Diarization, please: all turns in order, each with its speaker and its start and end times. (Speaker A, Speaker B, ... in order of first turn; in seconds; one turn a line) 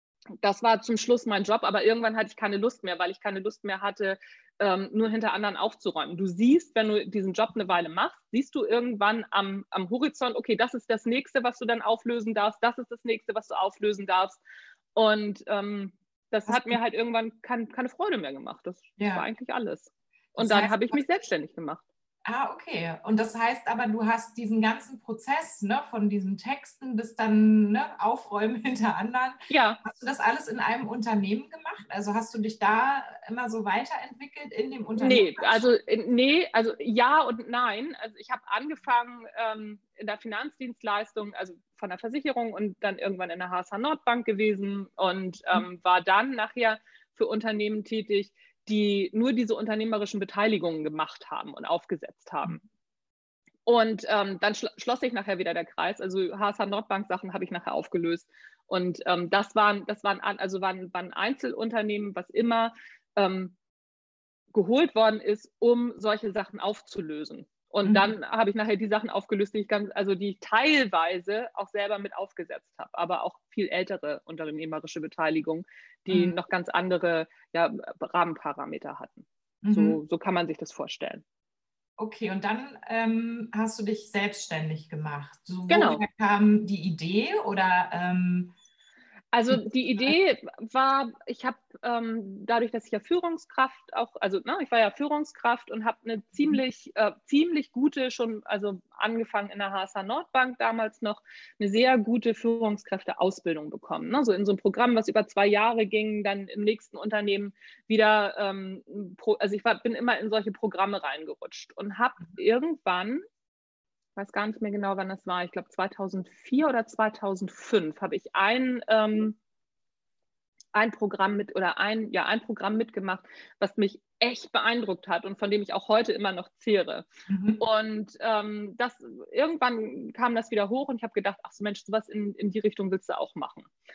Speaker A: 0.4-14.4
Speaker A: 14.9-21.8
Speaker B: 16.5-16.8
Speaker B: 19.0-19.2
Speaker B: 20.4-21.2
Speaker B: 22.2-35.7
Speaker A: 29.5-29.8
Speaker A: 35.0-52.6
Speaker A: 53.6-63.5
Speaker A: 64.5-81.2
Speaker B: 67.8-68.1
Speaker B: 76.1-76.3
Speaker B: 79.6-80.0
Speaker B: 82.0-88.5
Speaker A: 85.7-86.0
Speaker A: 89.3-113.2
Speaker B: 89.5-90.1
Speaker A: 114.2-119.4
Speaker A: 120.7-127.1
Speaker B: 127.3-127.6
Speaker A: 127.6-133.7